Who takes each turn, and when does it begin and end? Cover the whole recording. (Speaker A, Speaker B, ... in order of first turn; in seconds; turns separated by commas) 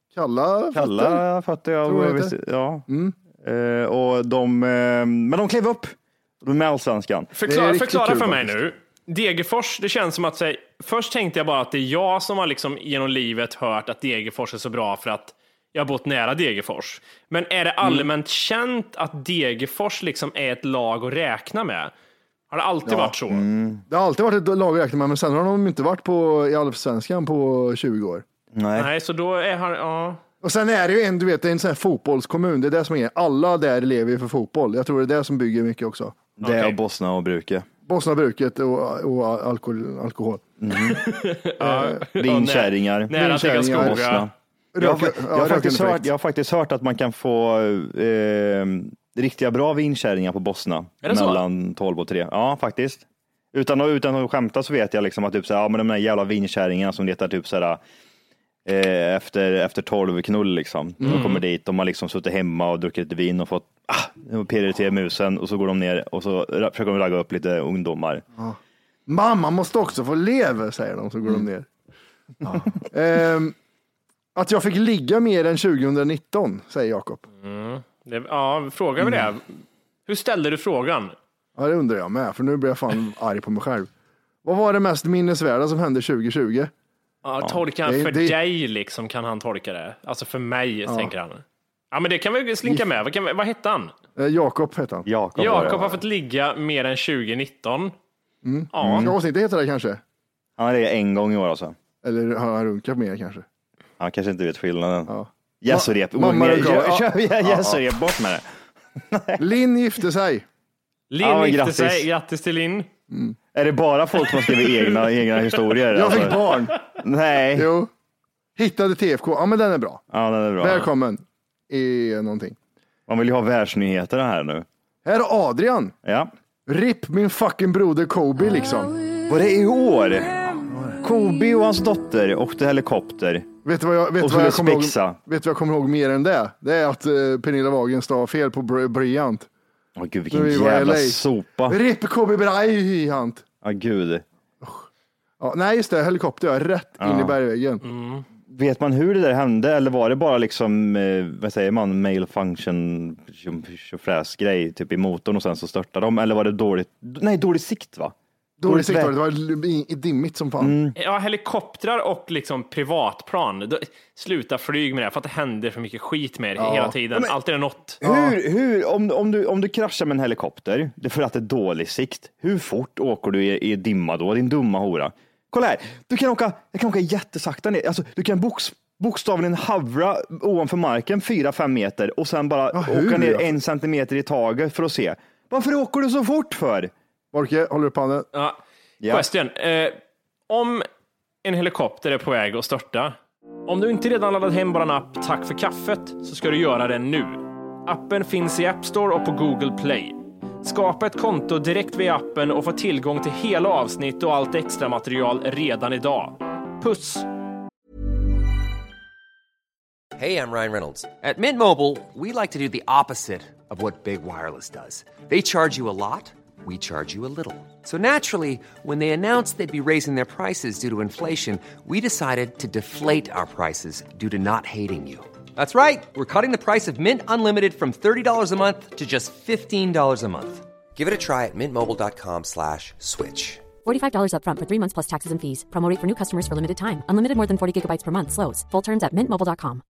Speaker A: 0.1-1.2, Speaker B: 0.7-2.9, Speaker A: 1.8-2.3, Speaker A: 2.9-3.1, Speaker B: 3.4-7.3, Speaker C: 7.3-21.9, Speaker A: 7.5-8.6, Speaker C: 22.5-23.4, Speaker A: 22.9-23.1, Speaker B: 23.3-23.8, Speaker A: 23.9-28.2, Speaker B: 28.5-28.9, Speaker C: 28.8-30.2, Speaker A: 30.4-36.2, Speaker B: 36.4-37.7, Speaker C: 36.4-36.8, Speaker A: 37.9-40.4, Speaker B: 40.6-41.0, Speaker C: 40.8-44.3, Speaker A: 41.6-42.0, Speaker B: 42.1-57.8, Speaker A: 43.1-44.1, Speaker A: 44.7-46.1, Speaker C: 51.0-51.4, Speaker B: 58.6-68.2, Speaker C: 61.0-61.4, Speaker A: 68.4-71.7, Speaker A: 72.4-73.5, Speaker A: 74.3-77.2, Speaker C: 77.4-81.1, Speaker A: 81.6-83.9, Speaker A: 84.4-86.7, Speaker C: 87.2-93.9, Speaker A: 87.8-88.3, Speaker A: 90.8-91.1, Speaker A: 94.2-95.1, Speaker B: 95.0-96.0, Speaker C: 95.4-97.9, Speaker A: 98.4-100.0, Speaker C: 98.7-99.1, Speaker B: 98.8-99.1, Speaker B: 100.6-101.7, Speaker A: 102.0-103.4, Speaker B: 104.0-108.4, Speaker A: 105.1-107.8, Speaker B: 109.0-109.5, Speaker A: 109.4-110.4, Speaker C: 111.1-112.9, Speaker B: 111.2-112.1, Speaker A: 113.1-113.4, Speaker B: 113.5-117.7, Speaker C: 114.4-114.9, Speaker A: 115.9-116.8, Speaker C: 116.1-116.3, Speaker A: 117.5-117.9, Speaker A: 118.5-120.0, Speaker B: 120.1-120.9, Speaker A: 120.6-122.6, Speaker B: 123.1-124.7, Speaker A: 125.0-125.9, Speaker B: 126.0-126.3, Speaker A: 126.7-128.9, Speaker B: 129.2-133.5, Speaker A: 130.7-131.0, Speaker A: 133.6-139.5, Speaker B: 134.2-135.2, Speaker B: 139.9-141.8, Speaker A: 140.3-143.4, Speaker B: 143.6-144.2, Speaker A: 145.4-147.8, Speaker B: 147.0-147.4, Speaker C: 147.8-148.2, Speaker B: 148.5-159.1, Speaker A: 158.6-160.8, Speaker B: 160.6-160.9, Speaker C: 161.0-168.0, Speaker A: 166.6-166.9, Speaker B: 168.0-186.9, Speaker A: 168.0-168.4, Speaker A: 182.7-183.5, Speaker A: 187.3-188.3, Speaker C: 188.3-190.0, Speaker B: 189.0-189.3, Speaker C: 190.5-190.8, Speaker C: 191.4-193.2, Speaker C: 193.7-207.3, Speaker D: 210.2-233.7, Speaker E: 233.8-239.8